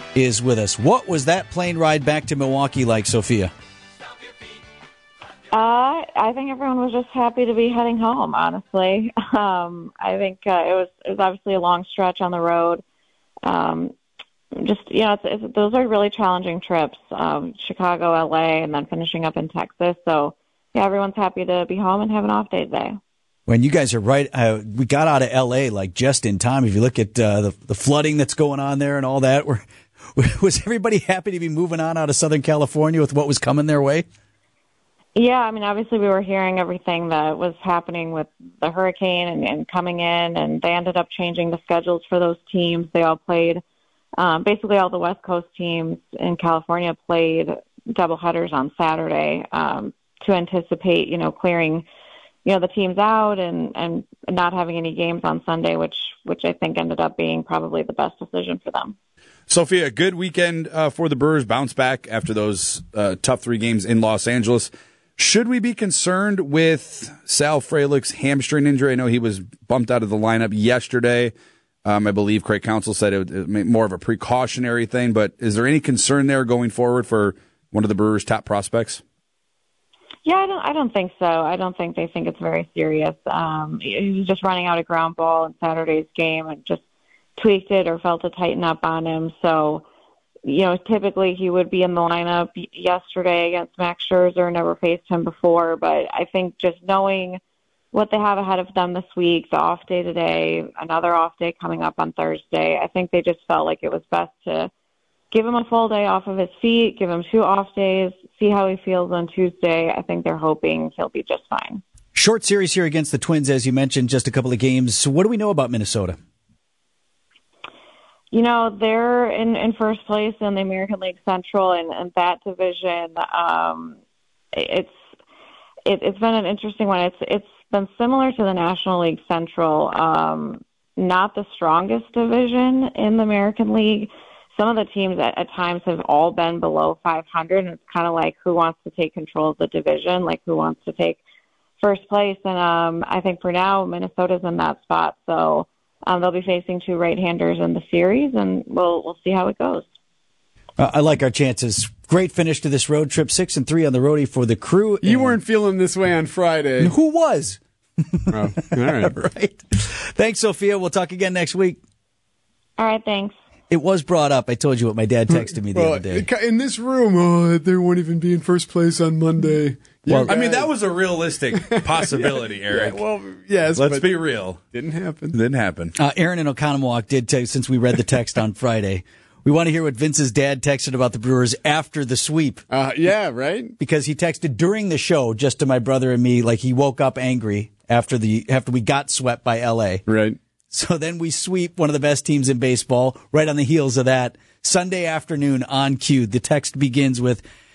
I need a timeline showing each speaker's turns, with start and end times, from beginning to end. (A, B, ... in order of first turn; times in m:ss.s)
0:00.1-0:03.5 A
0:05.5-0:12.8 B
0:13.4-0:13.9 B
0:14.5-0:23.0 B
0:23.5-0:34.0 A
0:35.1-0:43.6 B
0:44.2-0:51.8 B
0:52.4-0:59.0 B
0:59.5-1:11.3 C
1:11.8-1:19.0 C
1:20.2-1:26.8 B
1:27.4-1:29.8 B
1:30.4-1:37.4 B
1:37.9-1:44.7 B
1:45.3-1:51.8 B
1:52.1-1:56.2 A
1:58.3-2:04.0 B
2:04.5-2:04.9 B
2:05.8-2:21.2 B
2:21.8-2:29.9 B
2:30.8-2:35.4 A
2:35.0-2:36.9 D
2:36.8-2:41.8 A
2:38.3-2:39.1 D
2:42.8-2:43.3 B
2:43.7-2:46.3 A
2:45.3-2:50.7 D
2:50.1-2:50.3 A
2:50.3-2:53.0 C
2:51.5-2:54.1 D
2:53.8-2:54.6 C
2:54.7-2:55.3 D
2:55.3-2:55.9 C
2:56.0-3:02.6 A
3:02.7-3:03.7 D
3:03.8-3:10.0 A
3:10.1-3:10.4 D
3:10.7-3:17.4 A